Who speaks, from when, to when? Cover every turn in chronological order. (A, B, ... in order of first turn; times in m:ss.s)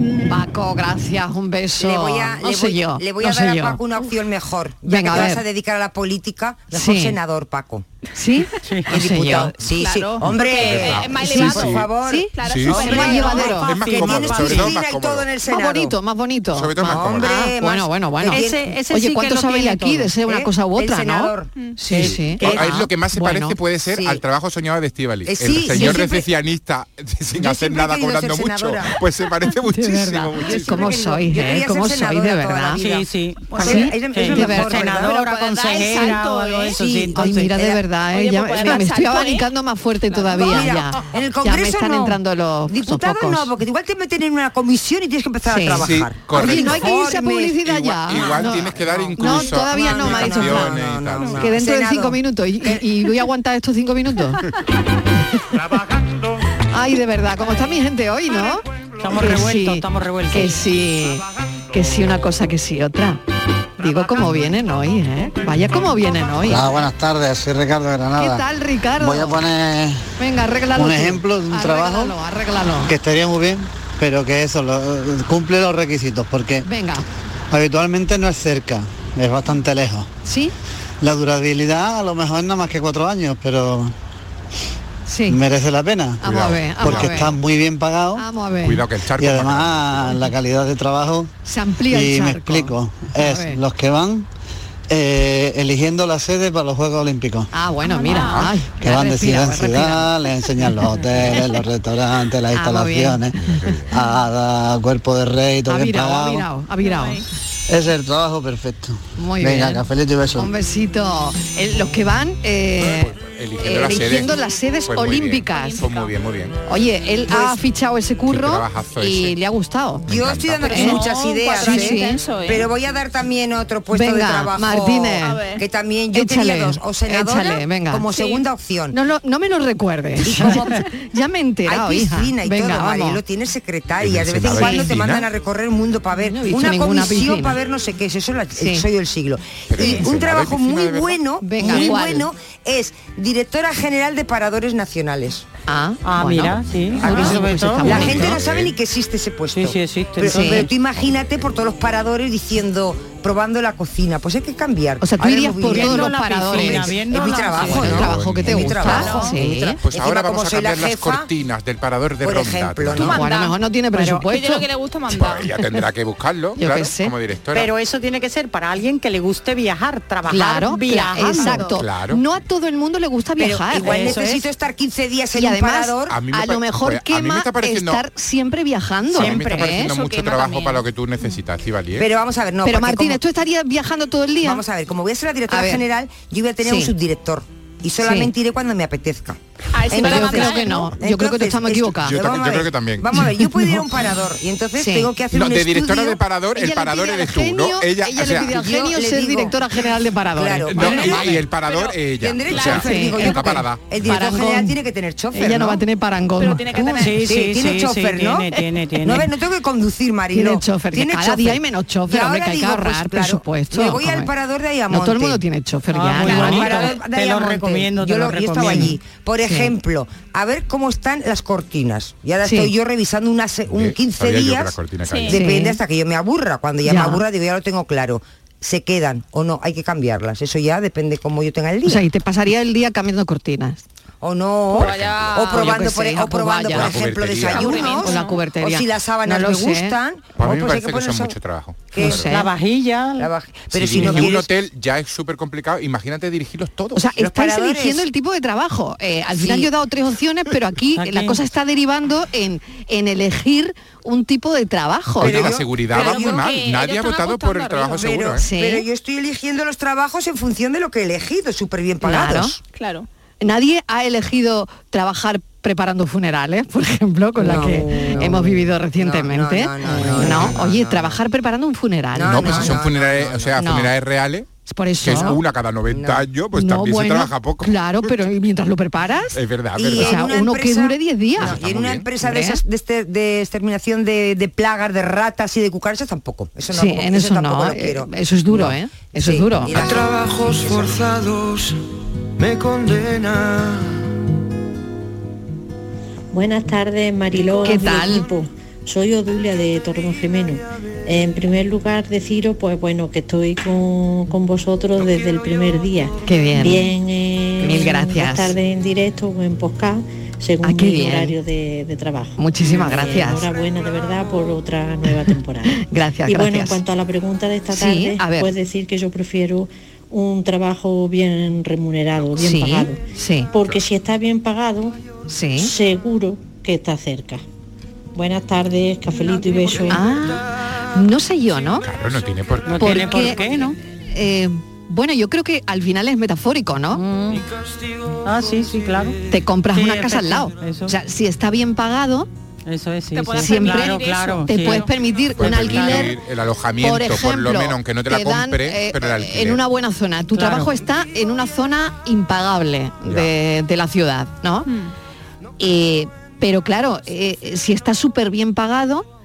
0:00.3-0:03.8 A
0:01.8-0:07.8 B
0:04.9-0:05.4 A
0:06.7-0:07.2 A
0:08.1-0:09.5 A
0:08.6-0:08.9 C
0:08.9-0:15.9 B
0:09.7-0:13.8 D
0:10.4-0:11.9 E
0:12.1-0:13.7 A
0:12.4-0:13.0 E
0:13.6-0:15.3 E
0:13.7-0:14.6 C
0:15.5-0:23.6 A
0:16.5-0:17.3 E
0:16.8-0:18.7 B
0:18.3-0:20.1 C
0:20.2-0:21.5 B
0:21.9-0:22.6 C
0:22.0-0:30.9 E
0:23.9-0:24.2 B
0:25.3-0:26.3 B
0:25.7-0:26.0 A
0:27.4-0:29.0 B
0:29.7-0:32.8 A
0:30.4-0:35.2 B
0:32.8-0:37.5 C
0:33.6-0:36.2 A
0:35.5-0:36.8 D
0:36.8-0:37.8 B
0:37.1-0:43.5 A
0:38.1-0:39.5 D
0:40.1-0:40.7 D
0:40.3-0:52.8 B
0:45.5-0:50.8 A
0:45.7-0:46.9 E
0:47.7-0:51.4 E
0:51.4-0:54.5 A
0:56.7-1:03.2 A
0:59.0-1:00.6 C
1:03.8-1:06.7 A
1:06.4-1:08.4 F
1:08.2-1:09.4 A
1:09.0-1:10.0 F
1:10.2-1:12.9 A
1:10.7-1:12.2 F
1:12.9-1:16.6 F
1:16.6-1:17.0 A
1:17.5-1:20.1 F
1:20.2-1:20.5 A
1:21.0-1:23.9 F
1:25.1-1:25.4 A
1:25.3-1:28.2 F
1:26.2-1:27.4 A
1:26.2-1:27.4 E
1:28.1-1:28.8 A
1:28.6-1:30.2 E
1:29.1-1:31.3 F
1:31.4-1:33.6 A
1:31.9-1:34.3 F
1:34.9-1:37.5 F
1:37.5-1:40.1 A
1:37.8-1:38.5 D
1:38.8-1:43.4 F
1:42.5-1:43.7 A
1:43.3-1:44.0 E
1:43.9-1:46.4 F
1:45.7-1:47.2 A
1:46.8-1:47.2 D
1:47.7-1:50.5 F
1:49.2-1:55.8 A
1:52.8-1:54.3 E
1:54.8-1:56.6 E
1:55.5-1:56.1 D
1:56.7-2:00.1 A
1:57.3-1:57.6 B
1:58.3-1:59.4 E
2:00.1-2:00.8 E
2:00.1-2:09.0 B
2:00.6-2:02.7 D
2:00.6-2:02.2 A
2:03.9-2:05.4 A
2:05.2-2:05.6 D
2:06.1-2:08.1 A
2:08.1-2:08.4 D
2:08.9-2:13.2 A
2:10.2-2:10.8 B
2:11.6-2:25.4 B
2:14.0-2:15.3 E
2:14.5-2:14.9 A
2:16.2-2:17.6 A
2:18.6-2:18.8 A
2:19.7-2:21.2 E
2:21.4-2:22.3 A
2:21.6-2:21.9 C
2:25.7-2:28.4 A
2:26.0-2:28.2 C
2:27.0-2:41.3 B
2:27.8-2:28.8 E
2:29.5-2:30.7 C
2:30.3-2:30.7 A
2:35.0-2:39.8 A
2:35.6-2:37.9 C
2:37.6-2:39.2 E
2:39.8-2:43.2 E
2:42.2-2:43.2 B
2:43.0-2:44.6 A
2:43.0-2:43.6 D
2:43.9-2:44.2 C
2:44.3-2:45.5 D
2:45.1-2:47.7 E
2:46.6-2:47.1 A
2:47.5-2:51.7 C
2:50.3-2:54.4 A
2:51.6-2:52.2 E
2:53.4-2:54.4 C
2:53.7-2:56.2 B
2:55.3-2:59.9 A
2:56.1-2:58.0 E
2:59.1-2:59.8 C
2:59.1-3:02.1 E
2:59.8-3:00.8 D
3:02.0-3:03.2 B
3:02.6-3:04.6 A
3:04.4-3:16.2 B
3:05.5-3:05.8 A
3:06.6-3:06.9 A
3:08.0-3:08.3 A
3:09.7-3:10.9 D
3:10.0-3:12.2 A
3:12.0-3:13.2 E
3:13.4-3:13.8 A
3:14.8-3:15.1 A
3:15.3-3:18.5 E
3:16.6-3:21.4 A
3:18.3-3:19.6 B
3:20.3-3:21.4 B
3:20.7-3:24.1 E
3:21.0-3:22.9 D
3:22.2-3:25.8 B
3:22.7-3:23.5 A
3:24.0-3:24.8 A
3:25.3-3:27.2 A
3:26.4-3:27.3 D
3:26.8-3:29.3 C
3:27.2-3:35.4 B
3:30.3-3:34.3 A
3:34.9-3:36.9 A
3:35.9-3:38.9 C
3:36.2-3:52.0 B
3:38.6-3:39.7 A
3:42.4-3:42.7 A
3:43.7-3:45.4 E
3:45.1-3:45.3 D
3:45.3-3:45.8 A
3:46.8-3:47.2 A
3:51.8-3:53.8 A
3:54.2-4:01.4 B
3:54.7-3:55.5 E
3:54.9-3:55.3 D
3:55.4-4:00.0 A
3:56.7-3:57.9 E
3:57.5-3:58.3 D
4:00.4-4:02.3 E
4:01.9-4:02.2 B
4:02.0-4:02.5 A
4:02.2-4:03.3 C
4:03.2-4:04.5 B
4:03.7-4:07.1 E
4:04.0-4:04.2 C
4:06.9-4:15.5 A
4:07.2-4:08.0 B
4:09.4-4:09.7 B
4:10.9-4:11.4 C
4:15.2-4:18.4 E
4:15.2-4:16.5 B
4:15.9-4:18.1 D
4:18.0-4:22.6 B
4:18.4-4:18.8 A
4:22.0-4:22.5 A
4:22.7-4:23.1 D
4:23.4-4:32.8 A
4:27.4-4:31.2 B
4:32.1-4:33.6 B
4:32.2-4:34.5 E
4:33.6-4:33.9 A
4:34.6-4:35.4 A
4:35.0-4:38.3 E
4:35.9-4:36.2 B
4:36.5-4:39.4 A
4:39.3-4:40.3 E
4:39.7-4:51.1 B
4:39.9-4:41.6 A
4:41.4-4:42.1 E
4:42.2-4:42.6 A
4:46.7-4:49.8 A
4:56.3-5:25.0 G
4:57.6-4:58.3 A
5:06.2-5:06.9 A
5:07.6-5:08.6 A
5:10.6-5:11.3 A
5:12.4-5:13.4 A
5:15.8-5:16.8 A
5:17.7-5:18.5 A
5:22.4-5:23.5 A
5:25.3-5:25.7 A
5:25.6-5:27.4 G
5:28.1-5:30.1 G
5:29.9-5:31.8 A
5:31.8-5:33.4 E
5:32.6-5:33.8 C
5:32.8-5:33.5 A
5:34.1-5:37.0 A
5:36.9-5:37.5 C
5:38.2-5:39.2 C
5:39.3-5:42.3 A
5:39.7-5:40.9 C
5:42.6-5:44.9 C
5:43.1-5:44.9 D
5:43.4-5:46.1 A
5:45.4-5:49.6 E
5:45.4-5:46.1 C
5:46.8-5:54.7 A
5:50.3-5:50.7 C
5:53.0-5:53.3 E
5:54.6-5:54.9 D
5:55.6-5:59.1 A